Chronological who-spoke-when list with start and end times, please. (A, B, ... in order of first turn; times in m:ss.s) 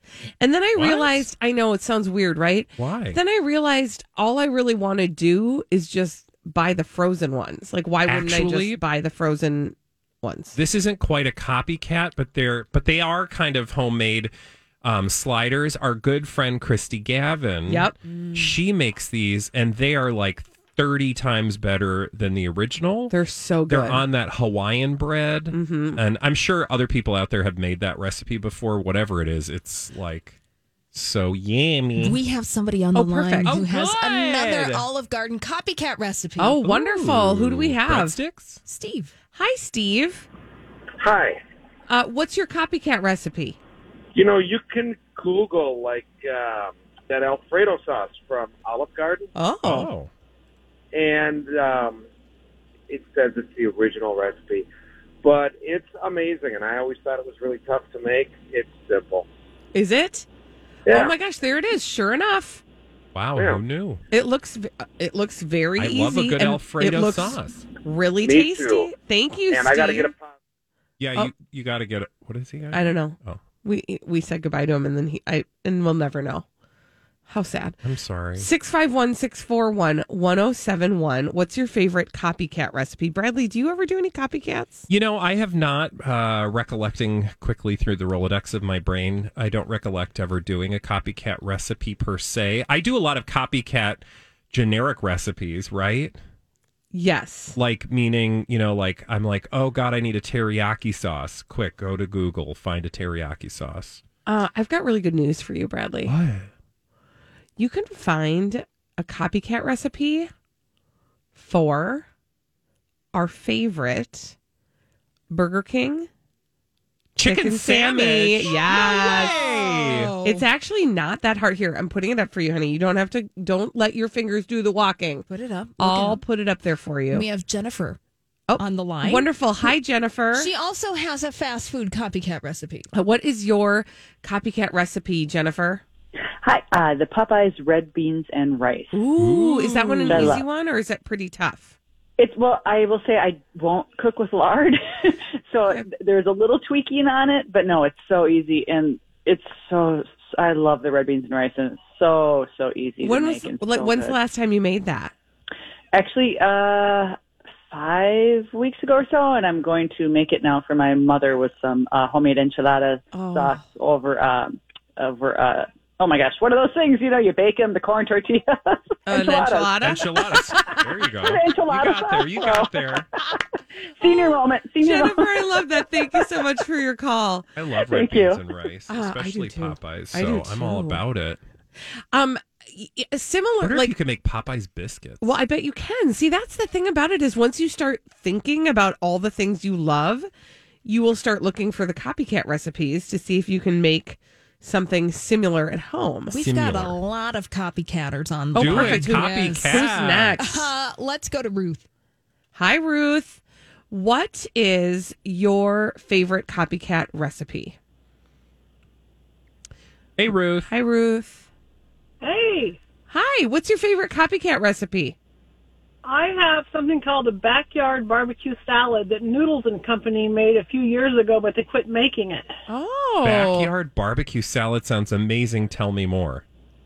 0:00.4-0:10.6 A
0:00.8-0:01.3 B
0:02.8-0:03.2 B
0:08.0-0:08.8 B
0:10.5-0:14.3 B
0:14.8-0:23.1 B
0:17.6-0:18.5 A
0:23.1-0:24.0 A
0:23.7-0:30.4 B
0:25.5-0:26.0 A
0:30.9-0:32.2 B
0:32.0-0:36.6 C
0:32.9-0:33.5 A
0:33.4-0:34.9 B
0:36.4-0:38.2 A
0:36.6-0:38.6 B
0:38.6-0:39.1 C
0:39.3-0:40.2 A
0:41.0-0:41.4 D
0:41.9-0:43.6 A
0:44.1-0:49.3 D
0:49.4-0:49.9 A
0:49.6-0:50.1 B
0:50.9-0:52.0 D
0:52.9-0:54.6 D
0:55.2-0:59.2 D
0:59.7-1:00.2 A
1:00.9-1:01.1 D
1:00.9-1:02.6 A
1:03.1-1:04.0 B
1:03.4-1:03.6 D
1:04.1-1:10.1 A
1:05.8-1:07.6 B
1:08.2-1:08.9 D
1:09.5-1:10.3 D
1:11.0-1:13.4 B
1:12.7-1:16.4 A
1:17.3-1:17.8 A
1:17.8-1:18.5 B
1:18.3-1:24.9 A
1:24.9-1:36.2 B
1:36.9-1:37.6 A
1:37.5-1:44.0 B
1:44.2-1:46.1 A
1:46.0-1:46.5 B
1:47.6-1:50.3 A
1:51.3-1:52.0 A
1:53.1-1:54.3 A
1:55.3-1:56.1 A
1:57.2-2:00.1 B
1:57.2-1:59.4 A
1:58.4-2:00.5 C
2:00.2-2:05.2 A
2:05.3-2:06.2 C
2:05.8-2:07.3 A
2:07.1-2:08.0 C
2:08.5-2:10.5 A
2:08.6-2:09.7 C
2:10.3-2:12.9 C
2:12.9-2:15.8 A
2:16.4-2:19.0 E
2:18.9-2:21.7 A
2:19.2-2:20.3 B
2:20.1-2:20.4 E
2:22.2-2:34.2 E
2:33.0-2:35.1 A
2:35.9-2:37.2 E
2:37.7-2:49.8 E
2:43.1-2:43.6 A
2:49.1-2:50.1 A
2:49.8-2:53.0 B
2:50.3-2:53.4 E
2:54.0-2:56.2 E
2:54.0-2:57.5 A
2:57.6-3:01.4 B
2:57.7-2:58.5 E
2:58.9-3:01.0 A
3:02.1-3:03.9 A
3:03.6-3:05.3 B
3:05.2-3:10.3 A
3:10.8-3:16.4 A
3:16.3-3:21.8 C
3:16.4-3:17.0 B
3:18.5-3:20.7 A
3:18.6-3:20.4 B
3:22.5-3:27.8 A
3:30.2-3:30.7 B
3:30.7-3:31.5 A
3:32.2-3:32.8 F
3:33.1-3:35.2 A
3:36.0-3:42.5 F
3:42.7-3:43.7 A
3:43.2-3:46.4 B